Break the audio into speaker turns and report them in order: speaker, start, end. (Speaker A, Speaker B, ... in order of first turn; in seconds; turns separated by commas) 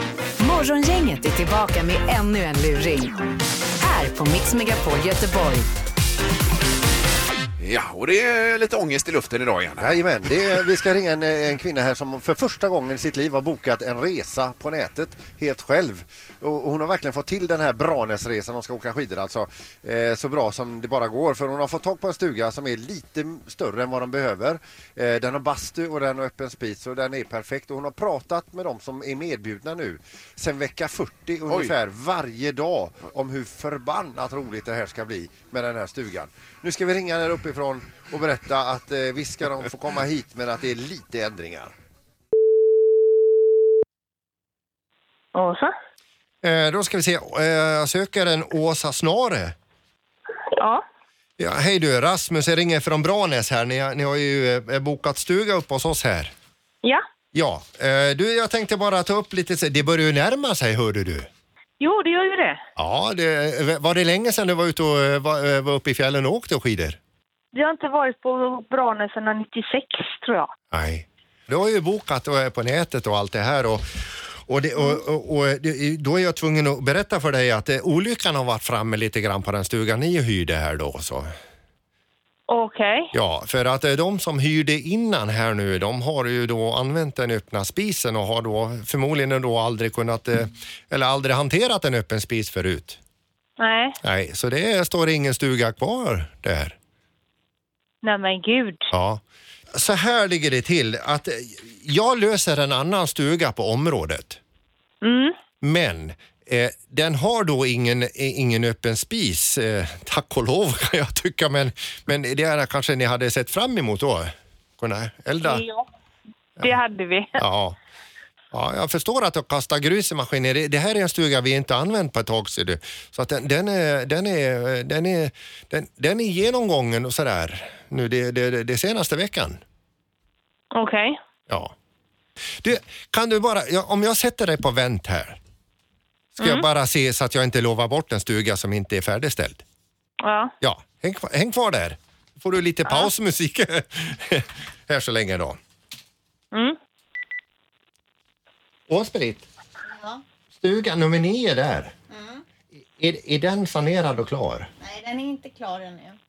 Speaker A: 0.4-3.2, Speaker A: 3.8-5.7, Speaker B: 7.6-9.8, Speaker C: 9.8-41.7, Speaker D: 45.3-45.7, Speaker C: 46.4-49.5, Speaker D: 50.5-50.8, Speaker C: 51.4-56.3, Speaker C: 57.3-61.3, Speaker D: 61.8-62.6, Speaker C: 62.8-67.0, Speaker D: 67.5-70.5, Speaker C: 70.7-73.8, Speaker C: 74.5-81.3, Speaker D: 82.5-83.1, Speaker C: 83.1-93.0, Speaker D: 93.6-94.0, Speaker C: 94.0-96.7, Speaker D: 98.0-98.8, Speaker C: 98.9-99.2, Speaker C: 99.7-104.4, Speaker D: 105.0-105.3, Speaker C: 105.6-115.6, Speaker D: 115.4-115.8, Speaker D: 116.6-117.4, Speaker C: 117.4-117.7, Speaker C: 118.5-129.6, Speaker D: 130.7-131.2, Speaker C: 132.6-135.4, Speaker C: 136.4-139.6, Speaker D: 136.4-136.7, Speaker D: 140.2-140.5, Speaker C: 140.6-145.6, Speaker C: 148.9-149.4, Speaker E: 149.9-150.2, Speaker C: 150.5-151.9, Speaker E: 152.1-152.4, Speaker C: 152.9-154.7, Speaker E: 154.8-156.2